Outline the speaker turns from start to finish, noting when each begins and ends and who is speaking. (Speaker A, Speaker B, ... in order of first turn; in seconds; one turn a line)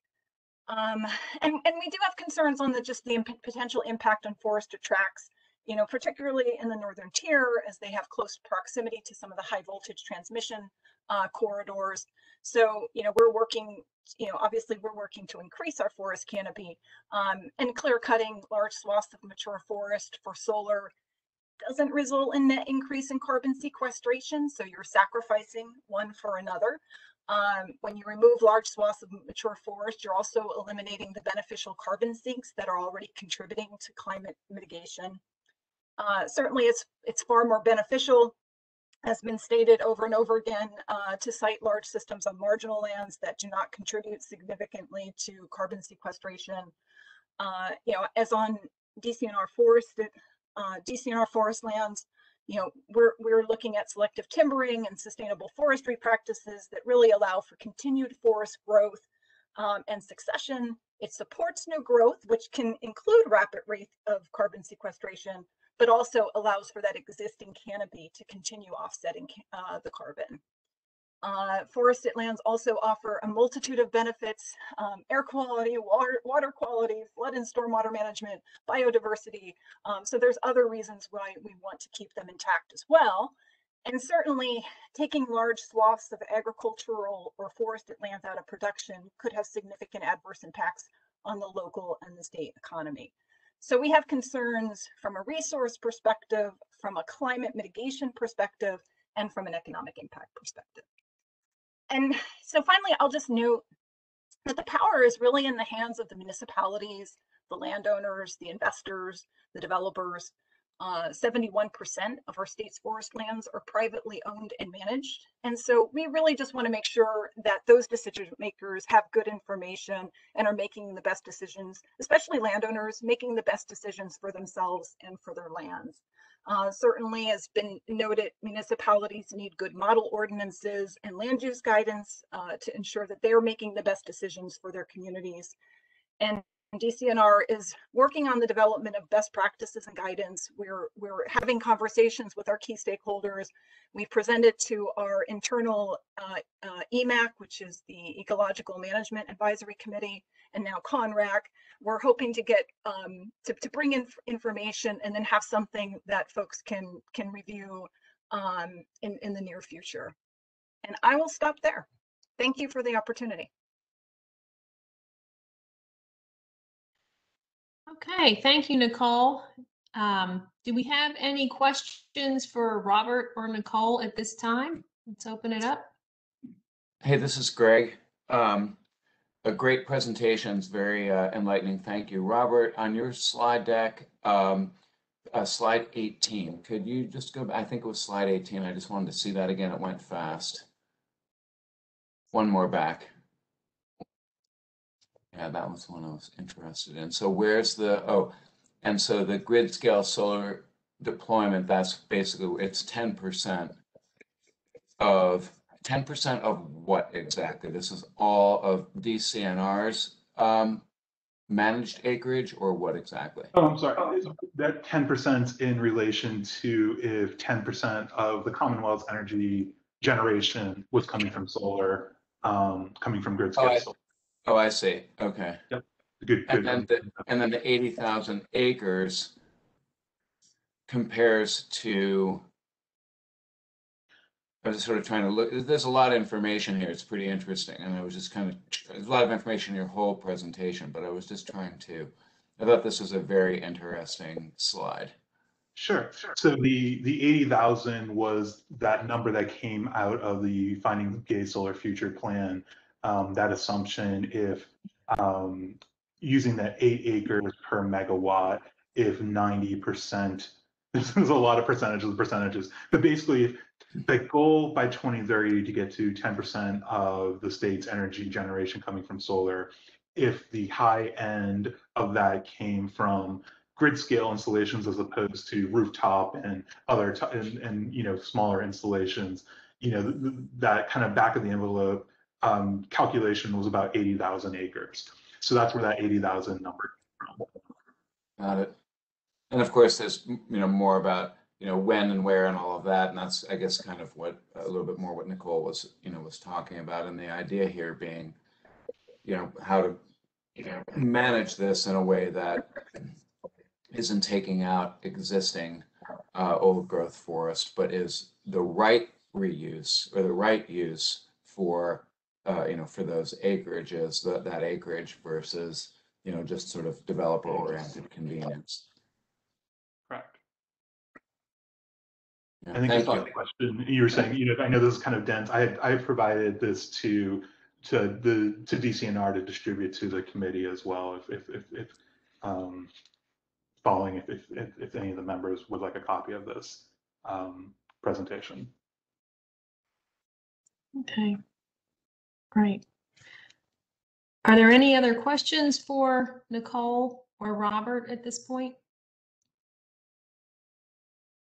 Speaker A: 0.7-20.9
Speaker A: 21.6-35.2
Speaker A: 36.0-38.3
Speaker A: 39.0-46.7
Speaker A: 47.4-59.0
Speaker A: 59.5-70.4
Speaker A: 71.2-83.3
Speaker A: 83.8-100.8
Speaker A: 101.9-103.6
Speaker A: 104.4-135.5
Speaker A: 136.2-160.1
Speaker A: 160.8-161.9
Speaker A: 162.4-163.5
Speaker B: 167.9-175.9
Speaker C: 177.0-178.8
Speaker C: 179.4-184.7
Speaker C: 185.3-190.7
Speaker C: 192.3-193.1
Speaker C: 195.3-203.8
Speaker C: 205.0-210.8
Speaker C: 211.5-213.5
Speaker D: 213.5-223.9
Speaker C: 223.6-223.8
Speaker C: 224.4-225.6
Speaker D: 225.7-227.2
Speaker C: 226.5-229.3
Speaker C: 230.9-232.4
Speaker C: 234.6-245.1
Speaker D: 245.8-287.4
Speaker C: 288.4-288.7
Speaker C: 289.5-298.4
Speaker C: 299.2-300.0
Speaker C: 300.6-303.1
Speaker C: 303.9-318.8
Speaker D: 320.1-320.4
Speaker C: 322.6-323.3
Speaker D: 322.7-332.9
Speaker D: 333.8-338.7
Speaker B: 341.0-341.4
Speaker B: 342.5-342.8
Speaker B: 344.4-348.8